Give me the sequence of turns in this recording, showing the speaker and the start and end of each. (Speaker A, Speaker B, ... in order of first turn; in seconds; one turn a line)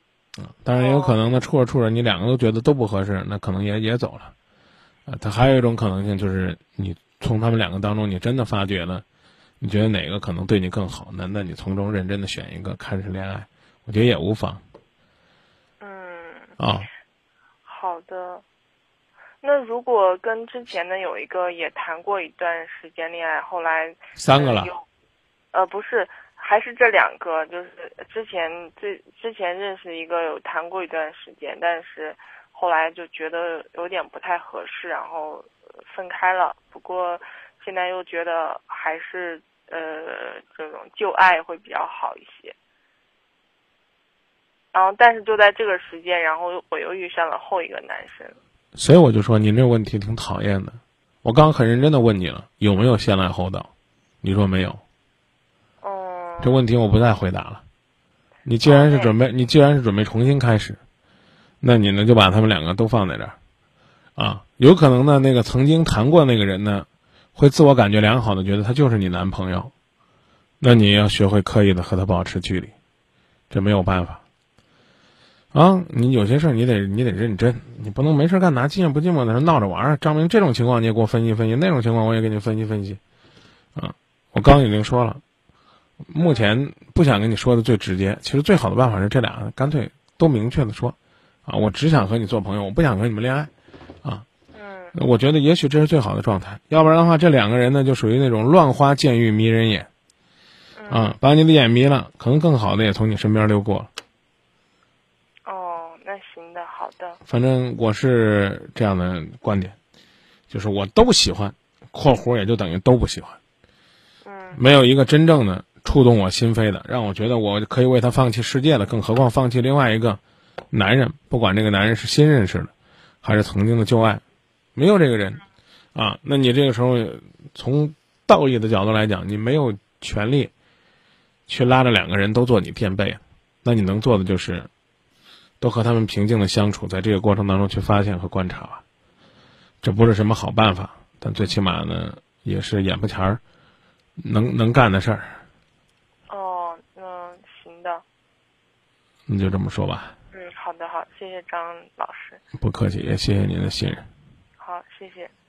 Speaker A: 0.4-4.3
Speaker B: 0.7-1.4
Speaker A: 5.1-9.0
Speaker A: 9.6-14.6
Speaker B: 15.8-16.6
Speaker A: 16.6-16.9
Speaker B: 17.6-18.4
Speaker B: 19.4-24.9
Speaker A: 24.1-24.7
Speaker B: 25.5-42.5
Speaker B: 44.7-48.4
Speaker A: 48.8-53.7
Speaker A: 54.2-54.8
Speaker B: 55.8-56.7
Speaker A: 56.4-57.6
Speaker A: 58.5-60.8
Speaker B: 58.6-59.2
Speaker A: 61.6-63.4
Speaker A: 64.2-69.7
Speaker A: 70.6-72.7
Speaker A: 73.5-74.2
Speaker A: 75.5-83.0
Speaker A: 83.8-85.2
Speaker A: 86.1-91.0
Speaker B: 86.2-86.5
Speaker A: 91.5-93.5
Speaker B: 94.5-95.0
Speaker A: 94.9-99.9
Speaker B: 100.8-101.1
Speaker A: 100.9-103.9
Speaker B: 105.5-107.2
Speaker A: 107.3-109.8
Speaker A: 110.5-113.4
Speaker B: 114.2-114.6
Speaker A: 114.5-120.2
Speaker A: 120.7-122.7
Speaker A: 123.2-124.2
Speaker A: 124.8-125.4
Speaker A: 126.0-130.5
Speaker A: 131.5-134.7
Speaker A: 135.6-138.8
Speaker A: 139.8-143.4
Speaker A: 144.2-145.4
Speaker B: 146.3-148.0
Speaker A: 149.3-150.1
Speaker B: 150.3-152.4
Speaker A: 152.6-154.1
Speaker B: 154.6-155.3